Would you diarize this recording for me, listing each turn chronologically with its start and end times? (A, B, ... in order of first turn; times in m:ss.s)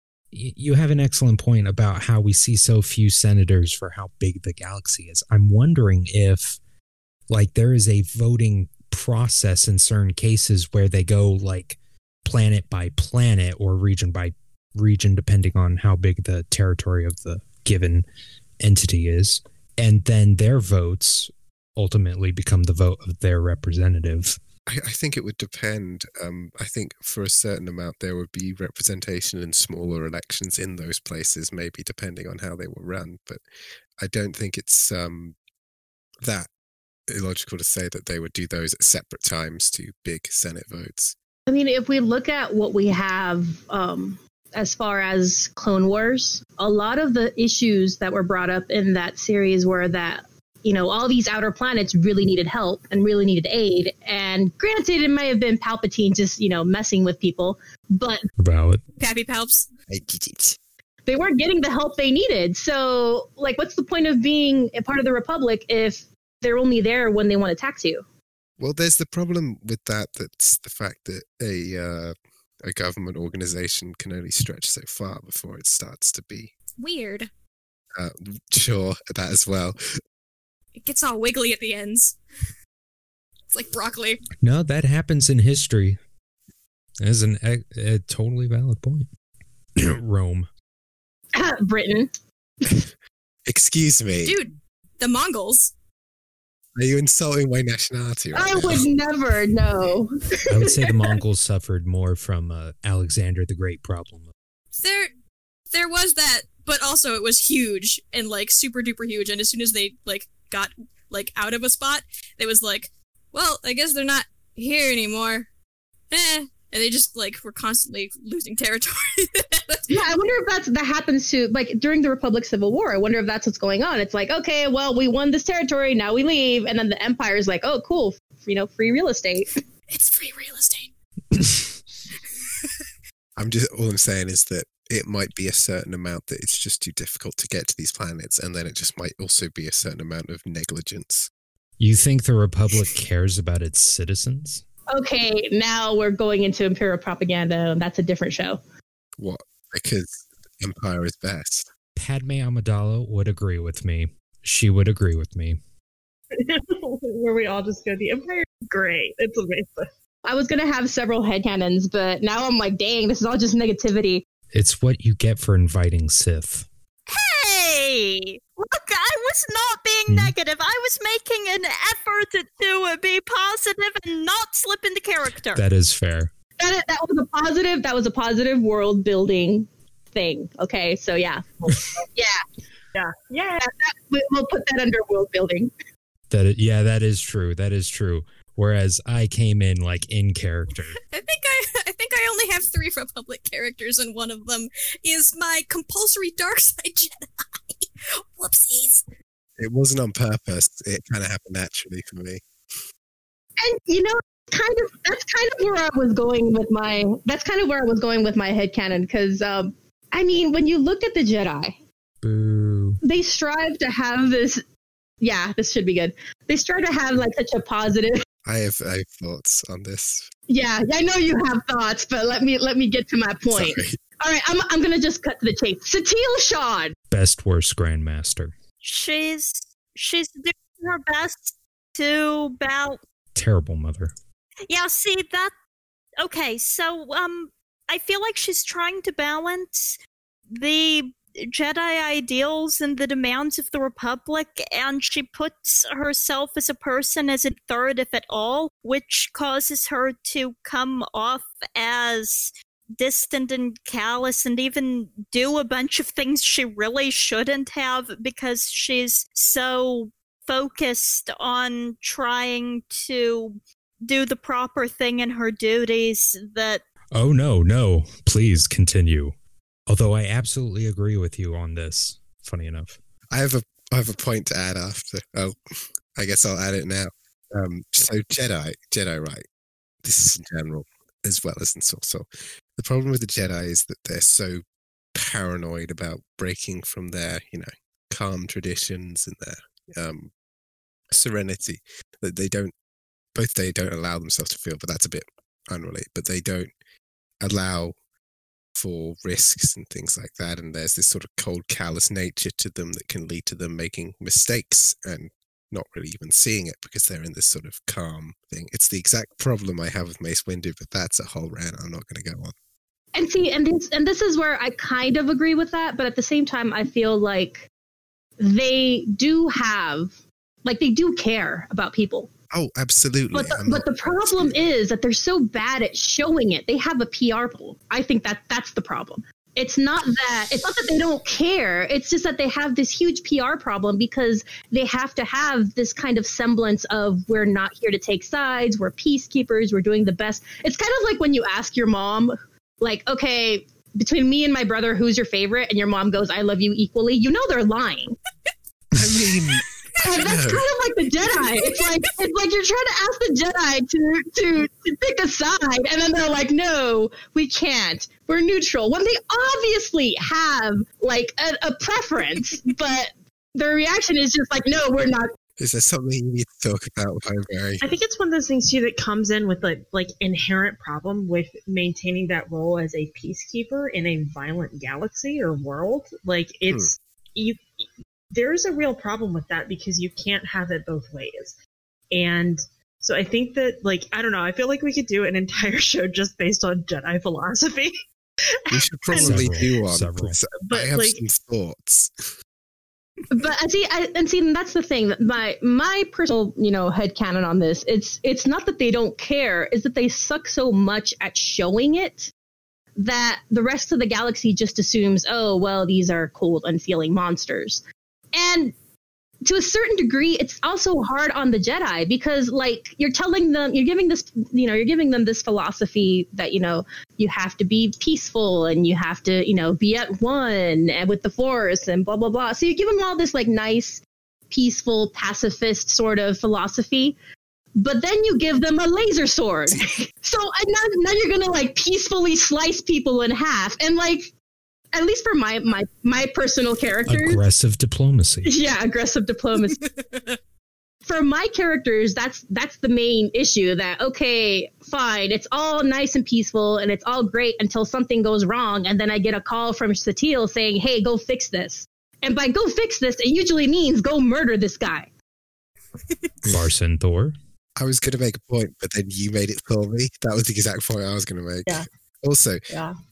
0:00.3-0:06.6 A
0:07.3-0:18.0 A
0:18.6-0:24.4 A
0:24.7-0:33.4 B
0:34.0-0:35.3 B
0:36.2-0:36.5 B
0:37.1-0:41.1 B
0:41.5-0:58.2 C
0:58.4-0:58.8 A
0:59.0-0:59.7 D
0:59.9-1:00.6 B
1:01.0-1:08.0 C
1:08.6-1:16.5 B
1:16.8-1:17.3 D
1:18.0-1:19.8 B
1:20.7-1:22.2 D
1:23.5-1:24.2 D
1:24.4-1:26.0 A
1:27.0-1:29.1 A
1:29.8-1:30.5 A
1:31.3-1:32.1 C
1:33.5-1:34.3 B
1:34.2-1:35.7 D
1:36.8-1:38.9 B
1:38.3-1:41.2 C
1:40.5-1:44.3 A
1:44.7-1:45.1 D
1:45.7-1:55.5 D
1:56.1-2:00.0 D
1:59.9-2:09.5 C
2:09.9-2:10.9 D
2:13.4-2:21.3 B
2:21.8-2:24.6 A
2:24.9-2:28.6 C
2:29.2-2:31.7 B
2:32.0-2:35.6 A
2:36.3-2:39.9 E
2:40.2-2:44.2 C
2:44.5-2:46.7 A
2:47.1-2:55.6 F
2:50.1-2:50.3 A
2:55.5-2:56.3 A
2:56.6-3:02.4 C
3:02.9-3:03.7 E
3:03.6-3:05.7 C
3:06.3-3:11.0 A
3:11.1-3:19.0 D
3:19.6-3:22.4 B
3:23.6-3:31.8 C
3:32.2-3:33.0 A
3:33.0-3:34.6 C
3:35.2-3:38.2 C
3:38.4-3:40.3 B
3:40.5-3:47.0 C
3:43.5-3:44.0 B
3:47.1-3:48.5 A
3:48.8-3:53.0 F
3:53.3-3:54.1 A
3:54.7-3:55.5 F
3:56.2-4:00.0 F
4:00.5-4:26.8 F
4:27.1-4:29.3 A
4:29.9-4:33.0 A
4:33.3-4:39.4 B
4:40.0-4:44.6 B
4:45.1-4:50.3 B
4:51.1-4:52.7 B
4:53.3-4:56.7 B
4:57.4-4:58.0 B
4:58.7-5:12.5 B
5:13.1-5:17.7 C
5:18.4-5:22.3 C
5:22.5-5:24.6 B
5:23.3-5:48.2 C
5:49.0-5:50.6 B
5:50.0-6:05.3 C
5:51.4-5:52.0 D
6:05.6-6:07.8 B
6:07.8-6:21.6 E
6:16.7-6:16.9 B
6:22.1-6:27.9 E
6:28.7-6:29.7 E
6:28.7-6:32.1 B
6:29.1-6:30.4 A
6:30.5-6:31.2 E
6:33.3-6:42.3 C
6:43.0-6:47.8 C
6:48.3-6:48.7 C
6:49.4-7:07.2 C
7:07.8-7:14.3 C
7:14.9-7:17.4 C
7:17.1-7:18.5 A
7:18.4-7:19.8 C
7:19.6-7:20.4 D
7:21.0-7:35.1 C
7:36.5-7:37.3 A
7:37.8-7:42.6 B
7:42.7-7:43.0 E